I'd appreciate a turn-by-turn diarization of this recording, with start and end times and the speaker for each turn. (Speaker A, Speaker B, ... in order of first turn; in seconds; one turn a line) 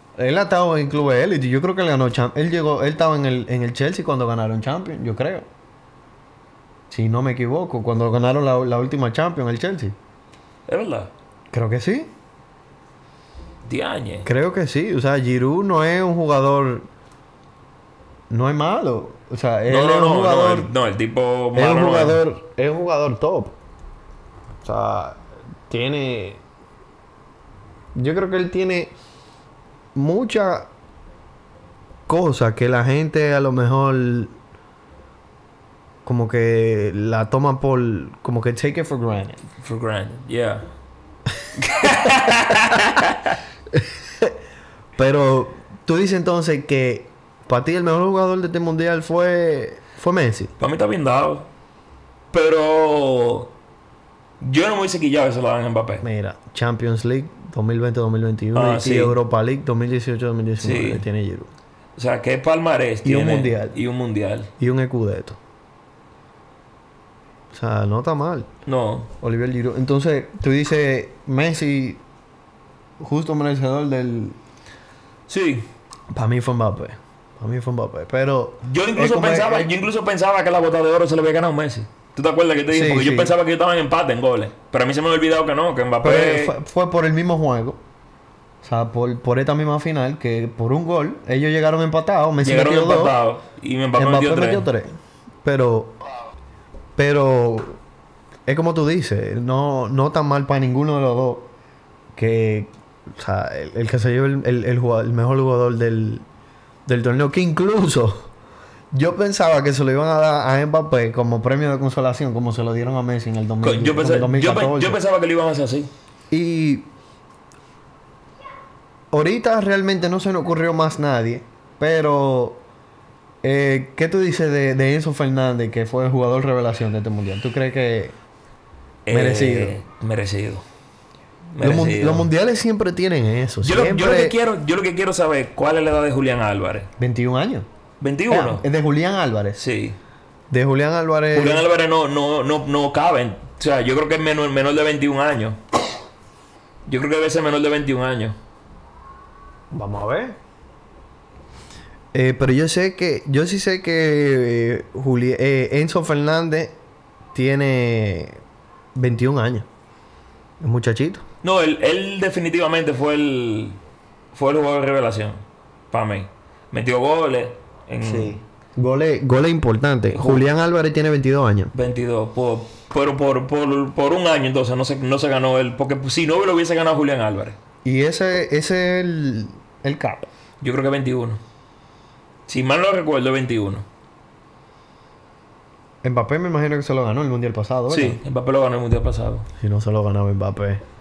Speaker A: 0.2-5.5
Speaker A: 6.9-10.0
Speaker B: 10.7-11.1
Speaker A: 11.5-12.1
Speaker B: 13.7-14.3
Speaker A: 14.2-16.9
Speaker A: 18.3-20.7
Speaker B: 19.7-22.2
Speaker A: 21.6-23.5
Speaker A: 24.6-26.4
Speaker A: 27.9-28.9
Speaker A: 29.9-30.7
Speaker A: 32.1-34.3
Speaker A: 36.0-39.4
Speaker B: 39.6-40.7
Speaker B: 41.6-43.4
Speaker A: 42.0-42.3
Speaker A: 43.7-44.4
Speaker A: 45.0-50.5
Speaker B: 50.6-51.5
Speaker B: 52.3-53.5
Speaker B: 54.4-56.0
Speaker A: 56.0-61.5
Speaker B: 58.5-59.2
Speaker B: 60.6-61.0
Speaker B: 62.0-64.5
Speaker A: 63.0-63.8
Speaker A: 64.6-65.4
Speaker A: 67.5-68.5
Speaker B: 68.7-69.1
Speaker A: 69.2-72.0
Speaker A: 73.0-74.4
Speaker B: 75.3-75.7
Speaker A: 76.1-79.7
Speaker B: 78.6-86.5
Speaker A: 82.7-83.3
Speaker A: 86.0-87.8
Speaker A: 88.6-93.2
Speaker B: 92.4-94.7
Speaker A: 94.0-94.9
Speaker A: 95.4-96.0
Speaker A: 97.0-97.8
Speaker A: 98.5-101.5
Speaker A: 102.2-106.2
Speaker A: 106.9-108.3
Speaker A: 108.9-115.0
Speaker B: 113.6-115.9
Speaker A: 116.3-116.9
Speaker A: 119.1-122.6
Speaker A: 123.4-128.2
Speaker B: 129.1-130.6
Speaker A: 129.1-129.8
Speaker B: 131.5-132.3
Speaker A: 131.6-134.4
Speaker B: 133.6-136.9
Speaker A: 137.0-137.7
Speaker B: 138.0-138.7
Speaker A: 138.3-139.6
Speaker B: 139.6-140.0
Speaker A: 140.5-141.7
Speaker B: 141.3-145.6
Speaker B: 146.9-148.4
Speaker A: 149.7-150.4
Speaker A: 152.1-156.8
Speaker A: 157.3-158.4
Speaker A: 158.9-159.7
Speaker A: 160.6-161.2
Speaker B: 161.4-163.8
Speaker B: 164.3-165.4
Speaker B: 165.9-168.4
Speaker A: 168.0-171.7
Speaker B: 170.1-170.5
Speaker B: 171.7-177.6
Speaker A: 177.8-180.3
Speaker B: 180.6-181.4
Speaker B: 182.5-183.9
Speaker A: 186.0-188.2
Speaker B: 187.9-189.5
Speaker A: 189.6-190.8